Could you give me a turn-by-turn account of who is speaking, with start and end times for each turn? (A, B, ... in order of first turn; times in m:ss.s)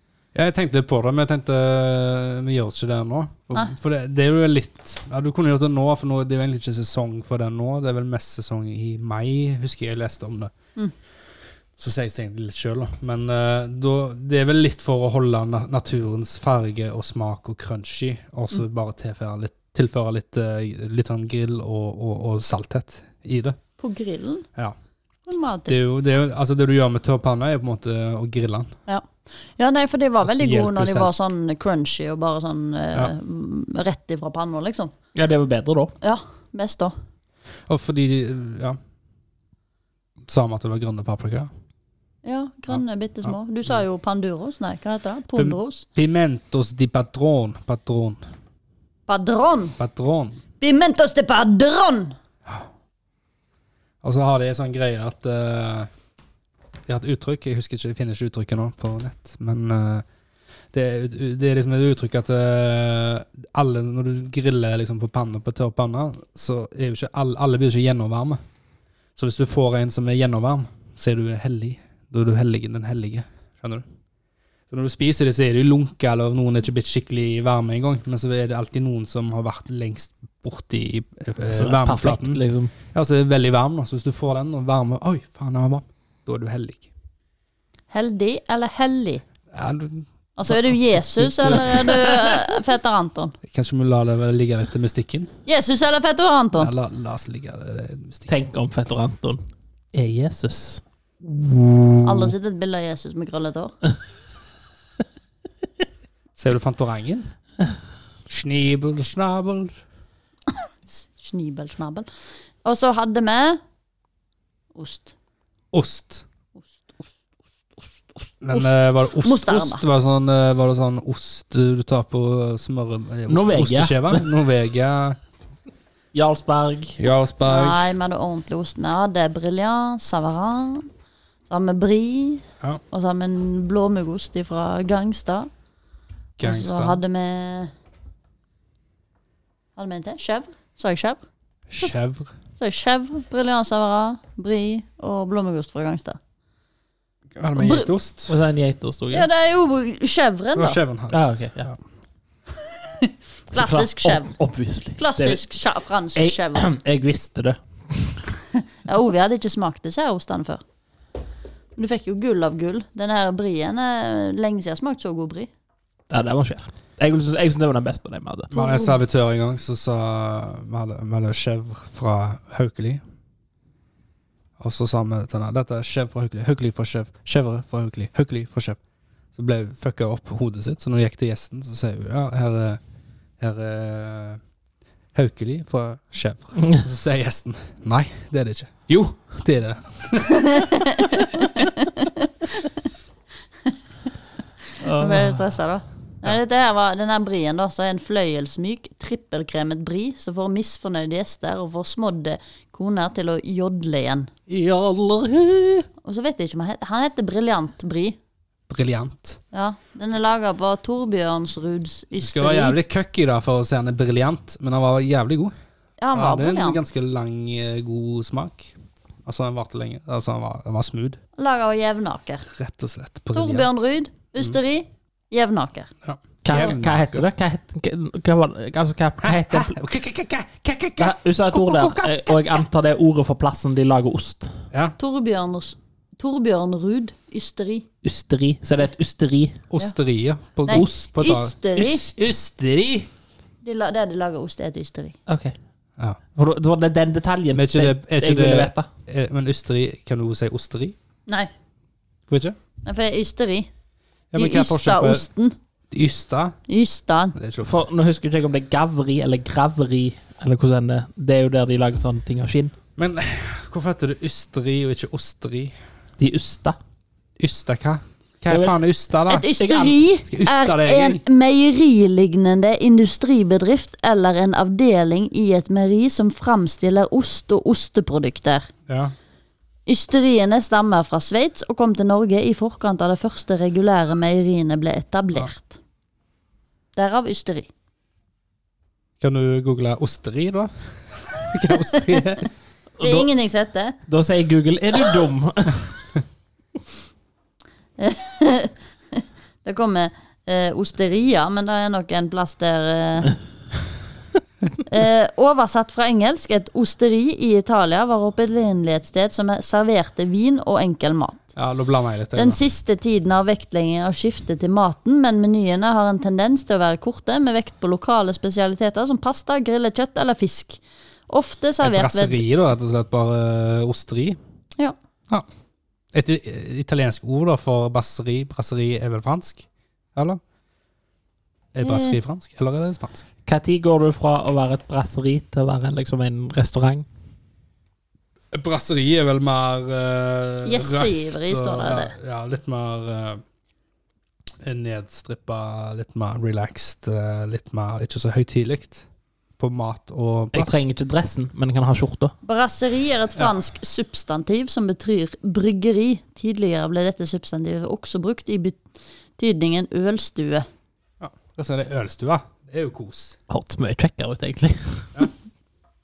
0:00.3-0:10.5 A
0:11.8-0:23.6 A
0:23.8-0:24.4 B
0:25.3-0:25.8 B
0:25.7-0:28.7 A
0:28.9-0:34.9 B
0:30.2-0:31.1 A
0:35.1-0:35.9 C
0:36.0-0:36.9 B
0:37.7-0:38.8 A
0:40.3-0:41.5 A
0:42.2-0:45.8 B
0:42.7-0:43.3 A
0:45.4-0:48.2 A
0:49.1-0:49.8 B
0:49.8-0:50.4 A
0:50.6-0:52.1 B
0:54.0-0:55.9 A
0:56.9-1:00.0 A
1:00.7-1:08.4 A
1:09.2-1:13.8 A
1:14.7-1:26.9 A
1:21.5-1:22.7 C
1:27.9-1:29.2 B
1:29.5-1:31.8 A
1:30.4-1:33.4 B
1:31.4-1:32.1 C
1:33.4-1:35.3 A
1:35.4-1:36.7 B
1:36.6-1:38.3 A
1:38.3-1:39.4 C
1:39.9-1:40.8 C
1:41.2-1:42.3 A
1:42.0-1:43.7 B
1:46.4-1:47.3 A
1:48.3-1:49.8 A
1:50.9-1:52.1 B
1:52.6-1:53.6 B
1:54.7-1:55.1 B
1:55.7-1:56.2 A
1:56.6-1:56.9 B
1:58.4-2:05.2 A
1:58.5-1:59.8 B
2:03.3-2:04.3 C
2:06.1-2:07.0 C
2:07.0-2:07.9 A
2:07.4-2:10.9 B
2:11.5-2:15.5 B
2:16.4-2:17.0 A
2:16.4-2:17.7 B
2:19.8-2:21.2 B
2:21.7-2:22.3 A
2:22.6-2:26.2 B
2:27.4-2:28.3 A
2:27.6-2:27.9 B
2:28.3-2:29.3 C
2:29.1-2:30.8 B
2:30.6-2:31.7 A
2:31.1-2:31.7 C
2:32.8-2:34.3 B
2:33.5-2:35.4 C
2:35.0-2:36.7 B
2:36.2-2:38.2 C
2:38.8-2:40.6 B
2:41.8-2:45.5 B
2:46.1-2:48.5 C
2:48.5-2:53.0 A
2:48.5-2:49.0 B
2:54.6-2:58.8 A
2:59.3-3:02.8 A
3:03.4-3:04.4 A
3:05.1-3:11.0 A
3:10.3-3:12.6 B
3:14.8-3:15.5 C
3:14.8-3:24.3 B
3:24.5-3:25.8 A
3:26.0-3:28.2 B
3:28.7-3:29.4 A
3:29.5-3:32.8 B
3:32.2-3:35.5 A
3:36.0-3:36.8 B
3:36.1-3:38.7 A
3:39.2-3:41.2 A
3:41.4-3:42.4 B
3:42.5-3:43.7 A
3:43.3-3:45.9 B
3:46.0-3:47.2 A
3:46.4-3:49.8 C
3:49.2-3:52.4 A
3:51.0-3:54.6 C
3:55.0-3:57.8 B
3:58.0-3:59.6 C
3:59.7-4:03.1 A
4:00.6-4:02.1 B
4:03.6-4:05.2 B
4:05.3-4:05.5 C
4:06.3-4:08.9 C
4:07.5-4:10.9 A
4:12.3-4:12.6 A
4:12.8-4:13.7 B
4:14.3-4:15.2 A
4:14.3-4:15.6 B
4:15.9-4:16.6 A
4:16.7-4:17.4 B
4:17.3-4:17.9 A
4:17.6-4:22.7 C
4:23.0-4:25.8 A
4:26.2-4:26.8 C
4:27.4-4:29.5 A
4:28.5-4:28.7 C
4:29.3-4:38.7 B
4:29.6-4:30.0 C
4:30.3-4:31.2 A
4:38.9-4:39.1 A
4:39.8-4:45.8 B
4:47.0-4:47.7 B
4:49.2-4:52.5 A
4:53.0-4:54.0 B
4:53.0-4:53.3 C
4:54.1-4:55.9 C
4:58.0-5:03.3 B
5:04.8-5:11.4 B
5:11.6-5:12.6 A
5:12.4-5:22.4 B
5:21.8-5:24.4 A
5:26.1-5:30.4 A
5:31.7-5:33.2 A
5:31.8-5:32.2 B
5:33.4-5:37.0 C
5:38.5-5:43.4 A
5:40.6-5:42.1 B
5:44.6-5:49.0 A
5:49.6-5:50.8 A
5:50.5-5:52.3 C
5:52.4-5:58.8 B
5:59.4-6:00.6 B
6:01.2-6:03.4 A
6:03.5-6:05.2 C